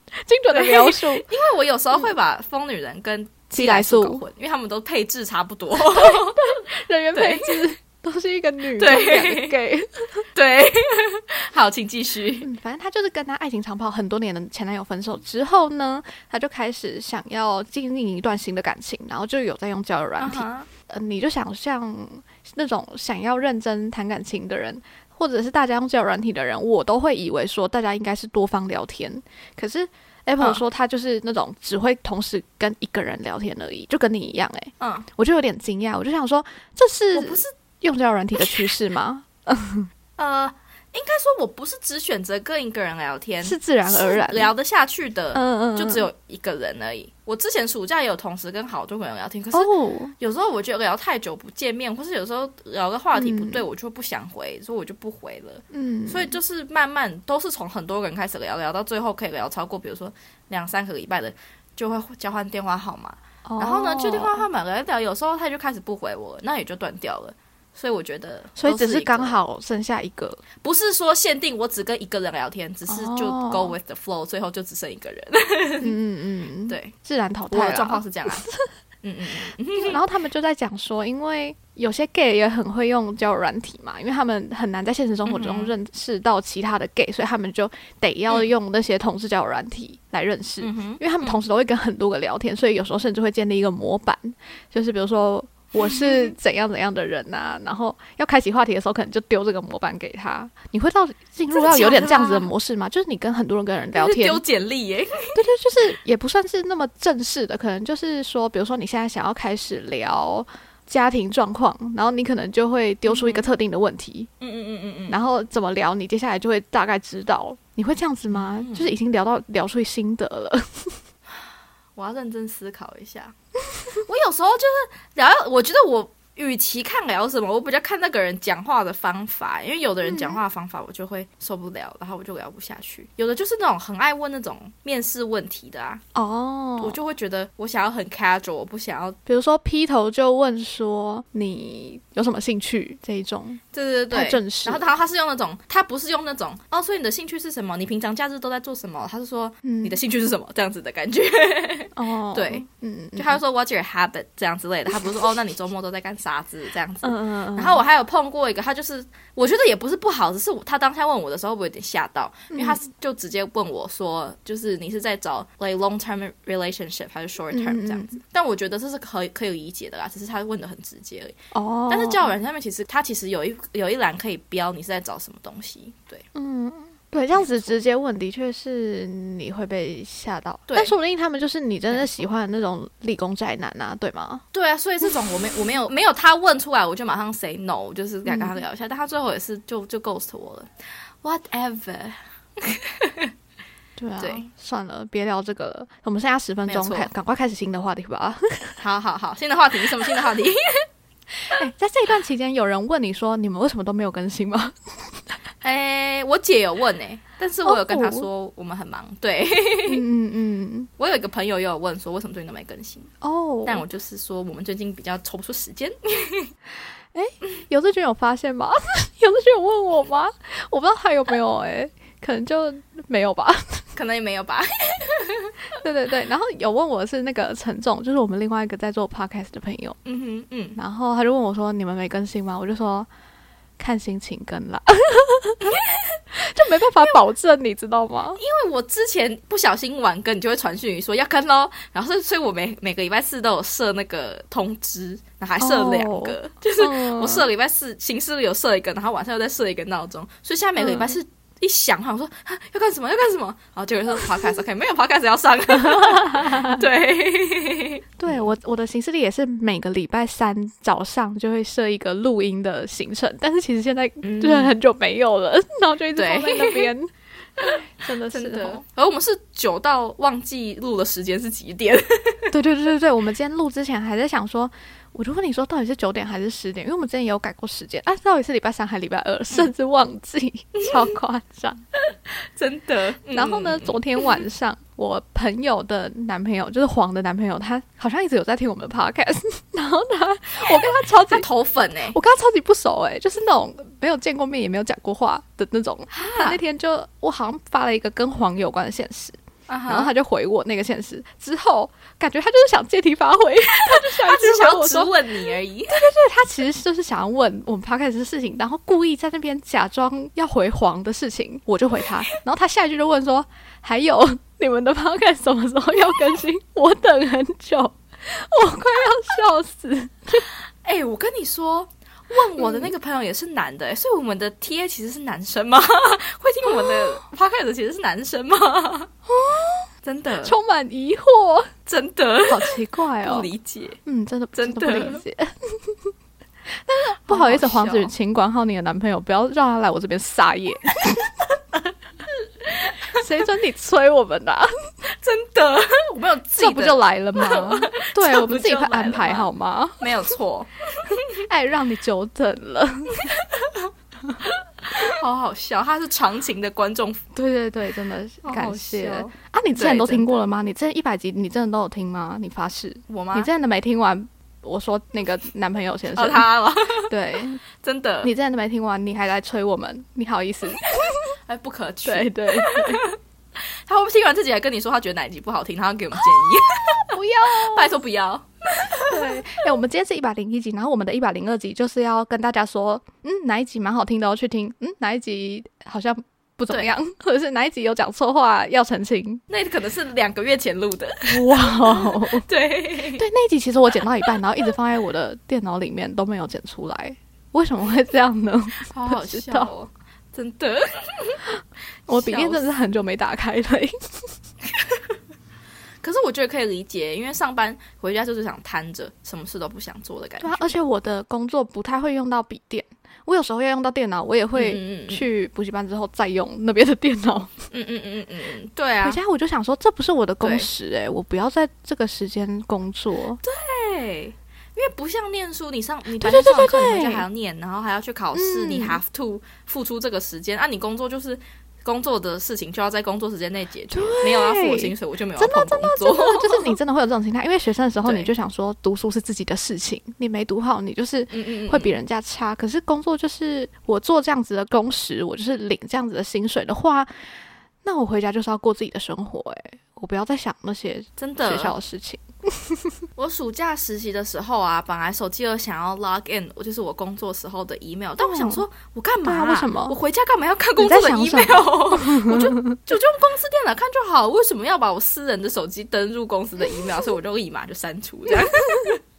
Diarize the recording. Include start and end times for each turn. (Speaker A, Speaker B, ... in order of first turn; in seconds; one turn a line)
Speaker A: 0.1-1.3
Speaker B: 0.5-6.5
Speaker A: 3.5-4.2
Speaker A: 5.8-10.3
Speaker B: 7.1-7.7
Speaker B: 8.8-9.6
Speaker B: 10.3-12.5
Speaker A: 12.4-39.9
Speaker B: 20.2-20.7
Speaker B: 34.8-35.1
Speaker B: 37.1-37.5
Speaker B: 40.2-69.4
Speaker A: 43.4-44.5
Speaker A: 45.3-46.1
Speaker A: 49.5-50.1
Speaker A: 53.1-53.6
Speaker A: 55.7-56.4
Speaker A: 63.4-64.5
Speaker A: 68.6-70.4
Speaker B: 70.6-75.9
Speaker A: 72.9-73.8
Speaker A: 75.8-78.6
Speaker B: 76.7-76.9
Speaker B: 77.5-78.5
Speaker B: 79.0-80.0
Speaker A: 79.4-104.4
Speaker B: 85.2-85.7
Speaker B: 90.6-91.4
Speaker B: 95.8-96.3
Speaker B: 101.5-102.5
Speaker B: 103.9-105.4
Speaker A: 105.3-114.3
Speaker B: 113.0-113.5
Speaker B: 114.4-115.2
Speaker A: 115.1-121.0
Speaker B: 118.3-118.9
Speaker B: 122.0-123.3
Speaker B: 124.0-136.0
Speaker A: 130.0-130.4
Speaker A: 136.1-137.0
Speaker B: 136.8-139.2
Speaker A: 139.2-144.9
Speaker B: 143.7-171.3
Speaker A: 149.6-150.0
Speaker A: 151.9-153.4
Speaker A: 157.0-157.9
Speaker A: 162.5-162.8
Speaker A: 167.5-168.2
Speaker A: 171.5-172.3
Speaker B: 171.9-176.2
Speaker A: 176.3-184.4
Speaker B: 177.3-177.8
Speaker B: 180.7-180.9
Speaker B: 184.5-190.7
Speaker A: 188.2-188.6
Speaker B: 191.2-193.3
Speaker A: 194.0-198.8
Speaker B: 194.2-194.4
Speaker B: 196.7-197.1
Speaker B: 198.8-200.8
Speaker A: 201.5-205.3
Speaker B: 205.6-210.0
Speaker A: 207.6-208.3
Speaker A: 209.8-210.9
Speaker B: 211.0-213.1
Speaker A: 213.2-213.8
Speaker B: 213.6-216.5
Speaker A: 217.1-223.9
Speaker B: 223.9-225.6
Speaker A: 225.8-230.0
Speaker B: 230.0-230.8
Speaker A: 230.7-233.1
Speaker A: 233.8-235.7
Speaker B: 235.7-236.2
Speaker A: 236.4-238.4
Speaker B: 238.3-258.5
Speaker A: 245.6-247.5
Speaker A: 250.8-251.2
Speaker A: 255.9-256.8
Speaker A: 258.2-268.8
Speaker B: 264.2-264.7
Speaker B: 266.1-266.9
Speaker B: 268.3-272.5
Speaker A: 272.5-281.8
Speaker B: 282.1-284.4
Speaker A: 283.3-291.5
Speaker B: 290.8-292.2
Speaker A: 292.1-305.4
Speaker B: 296.1-296.6
Speaker B: 299.7-300.1
Speaker B: 303.8-306.0
Speaker A: 305.9-320.4
Speaker B: 320.8-329.1
Speaker A: 322.6-322.9
Speaker A: 326.6-327.2
Speaker A: 329.3-329.9
Speaker B: 330.0-330.6
Speaker A: 330.4-331.7
Speaker B: 331.9-334.0
Speaker A: 332.4-333.5
Speaker A: 334.1-335.9
Speaker B: 334.5-335.2
Speaker A: 336.9-341.2
Speaker B: 337.3-338.1
Speaker B: 342.7-343.0
Speaker A: 343.1-344.7
Speaker B: 345.2-351.2
Speaker A: 346.6-350.3
Speaker A: 351.4-353.4
Speaker B: 353.2-353.9
Speaker B: 354.4-357.3
Speaker A: 357.3-366.5
Speaker B: 358.4-360.4
Speaker B: 363.1-363.5
Speaker B: 366.1-367.1
Speaker A: 367.1-367.6
Speaker B: 367.8-368.3
Speaker A: 368.2-371.3
Speaker B: 371.5-373.2
Speaker A: 372.0-373.0
Speaker B: 373.9-379.4
Speaker A: 377.1-378.0
Speaker A: 379.1-389.4
Speaker B: 389.5-393.2
Speaker A: 391.2-392.5
Speaker A: 393.1-399.7
Speaker B: 398.8-401.4
Speaker A: 402.1-404.3
Speaker B: 402.1-402.7
Speaker B: 406.0-410.7
Speaker A: 410.4-417.5
Speaker B: 414.5-415.3
Speaker B: 417.7-419.2
Speaker A: 419.0-423.4
Speaker B: 420.4-420.7
Speaker B: 423.4-436.8
Speaker A: 426.2-427.3
Speaker A: 428.3-429.0
Speaker A: 433.9-447.1
Speaker B: 438.0-438.3
Speaker B: 441.3-441.9
Speaker A: 447.8-453.0
Speaker B: 451.2-451.7
Speaker B: 453.1-469.0
Speaker A: 458.2-458.6
Speaker A: 459.2-459.9
Speaker A: 460.8-462.8
Speaker A: 468.4-468.9